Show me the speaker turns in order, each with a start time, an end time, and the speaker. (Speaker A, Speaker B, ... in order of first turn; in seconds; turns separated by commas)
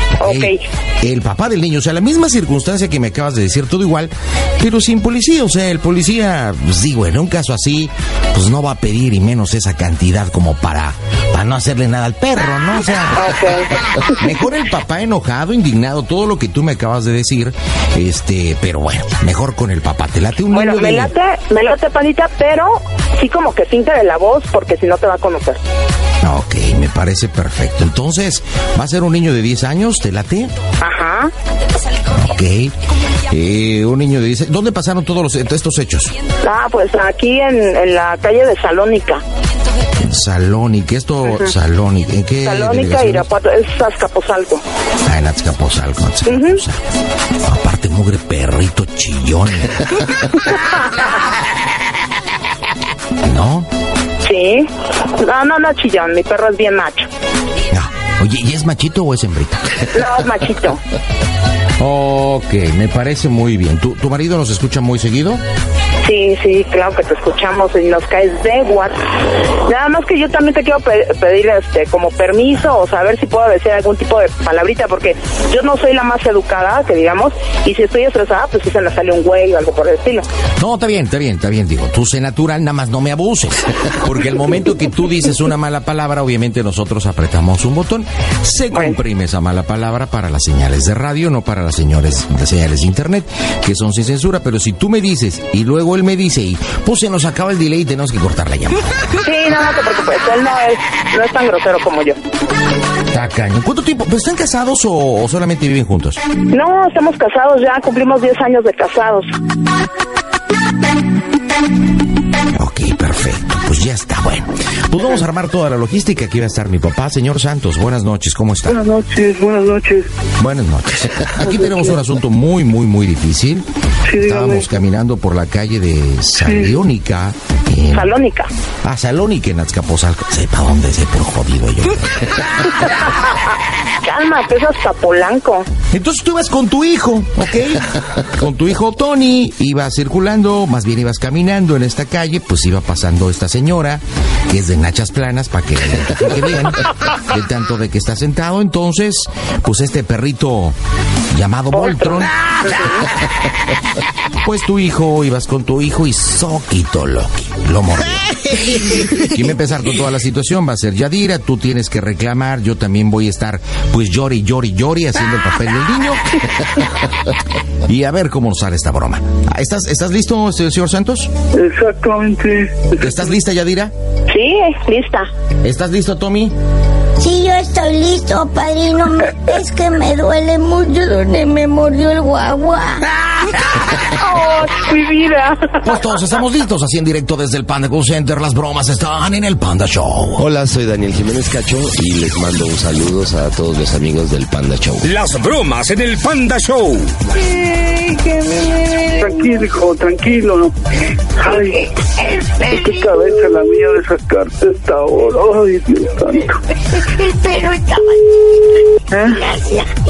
Speaker A: 0.2-0.6, Speaker B: 0.2-13.4, Speaker A: 13.1-14.3, Speaker B: 14.2-21.1, Speaker A: 20.5-25.6, Speaker B: 26.2-30.5, Speaker A: 30.8-31.3, Speaker B: 32.1-32.7, Speaker B: 33.3-36.1, Speaker A: 36.4-39.2, Speaker B: 40.0-43.3, Speaker A: 41.2-41.5, Speaker A: 42.4-44.6, Speaker B: 45.0-46.8, Speaker A: 46.3-46.6, Speaker B: 47.4-50.1, Speaker B: 53.2-53.7, Speaker A: 54.2-57.1, Speaker B: 57.7-59.9, Speaker A: 59.9-60.8, Speaker B: 61.8-65.4, Speaker A: 66.0-80.3, Speaker B: 80.6-99.0, Speaker A: 99.2-102.2, Speaker B: 103.1-106.2, Speaker A: 106.5-109.3, Speaker B: 112.5-118.8, Speaker C: 118.7-120.1, Speaker B: 120.4-128.1, Speaker C: 121.4-121.9, Speaker C: 124.1-124.7, Speaker C: 126.4-126.7, Speaker A: 127.9-128.5, Speaker B: 128.8-132.4, Speaker A: 134.0-135.7, Speaker B: 135.9-150.8, Speaker B: 151.3-152.3, Speaker A: 151.7-153.0, Speaker B: 154.4-166.9, Speaker B: 167.9-171.3, Speaker C: 171.5-172.9, Speaker B: 173.0-173.9, Speaker A: 174.3-175.3, Speaker B: 175.6-176.6, Speaker D: 177.2-183.1, Speaker A: 184.2-185.9, Speaker B: 185.8-190.5, Speaker E: 190.4-195.1, Speaker F: 195.0-197.1, Speaker D: 198.2-199.3, Speaker C: 199.2-200.7, Speaker C: 201.4-201.8, Speaker D: 201.4-201.8, Speaker D: 202.5-203.4, Speaker C: 202.7-206.5, Speaker D: 207.1-208.2, Speaker C: 209.1-209.4, Speaker D: 209.3-209.9